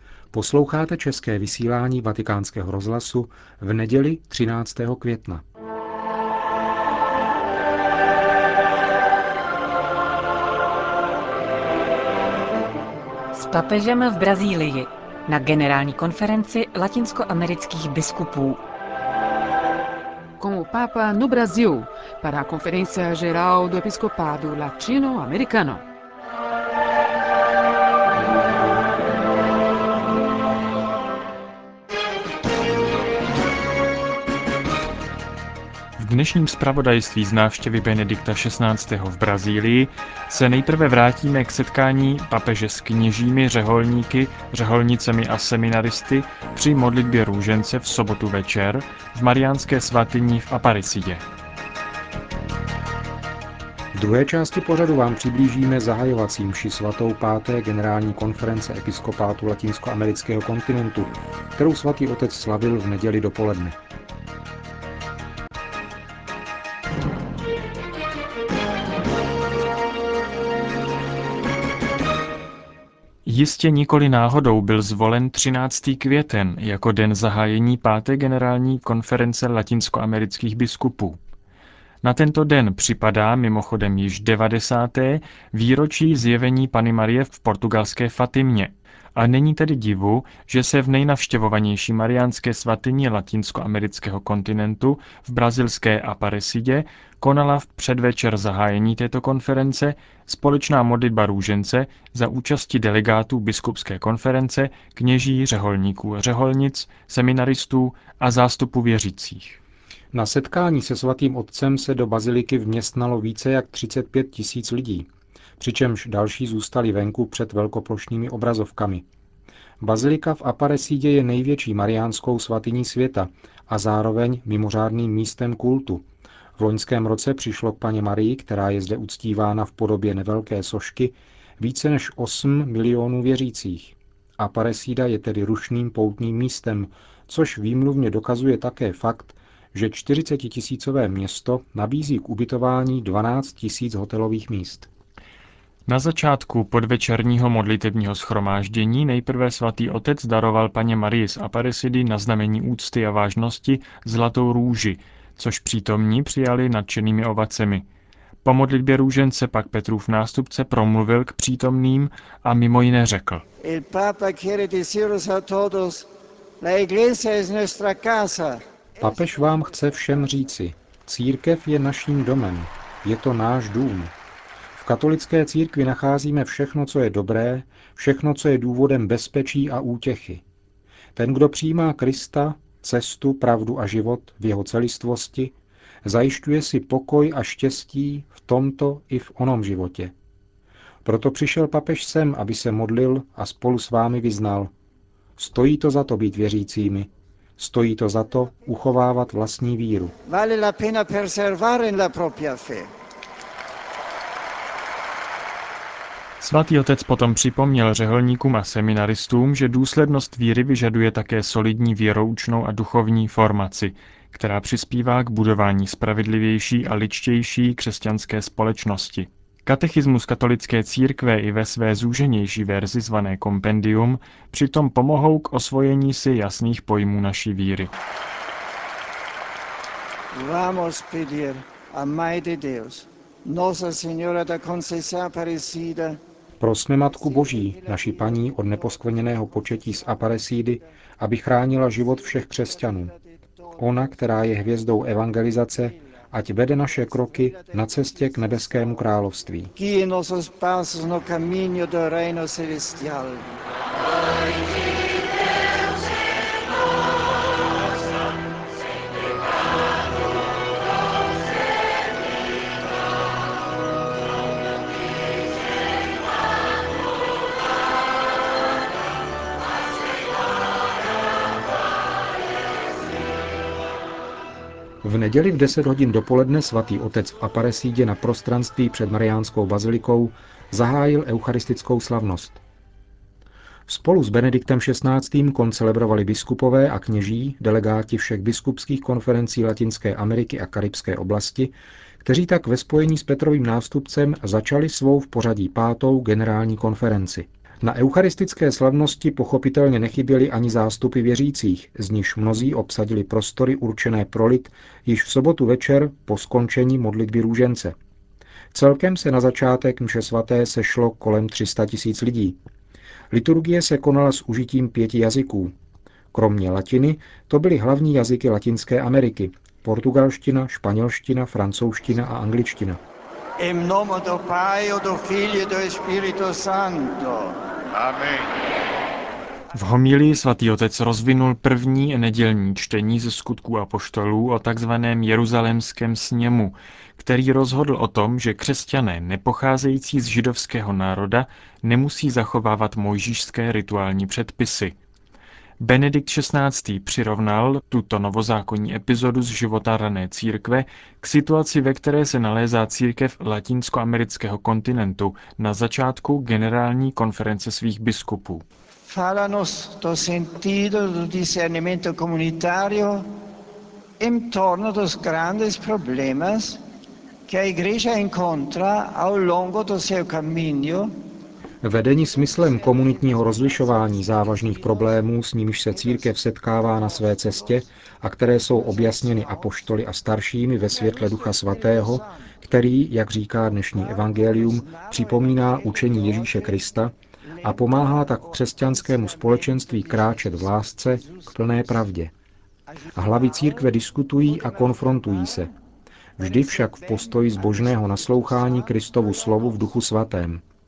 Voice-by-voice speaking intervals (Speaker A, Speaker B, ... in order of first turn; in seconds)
Speaker A: 0.3-5.4, 53.9-63.8, 110.1-115.1, 115.6-119.0, 119.8-126.0, 126.6-144.9, 169.0-174.1, 174.7-180.4, 181.2-190.1, 191.1-194.7, 195.4-200.1, 236.6-243.1, 243.8-249.7, 275.0-282.6, 283.9-308.0, 308.7-312.6, 313.3-315.7, 316.3-323.0, 371.8-392.3, 393.1-395.7, 396.4-400.6
Speaker B: 13.3-18.6
Speaker C: 20.4-25.9
Speaker D: 36.0-51.2, 73.3-81.2, 82.0-109.6, 145.9-157.9, 158.4-163.4, 206.4-227.9, 329.8-345.0, 345.8-358.6
Speaker E: 163.6-166.1, 166.6-168.6, 200.2-202.9, 230.3-236.2, 237.2-240.7, 241.9-243.2, 246.8-249.0, 249.8-253.5, 323.6-327.6, 359.1-363.3, 364.2-366.8, 367.5-371.1, 372.3-375.3, 375.9-377.9, 378.6-379.8, 380.8-382.6, 383.9-391.6, 392.9-395.7, 396.4-400.0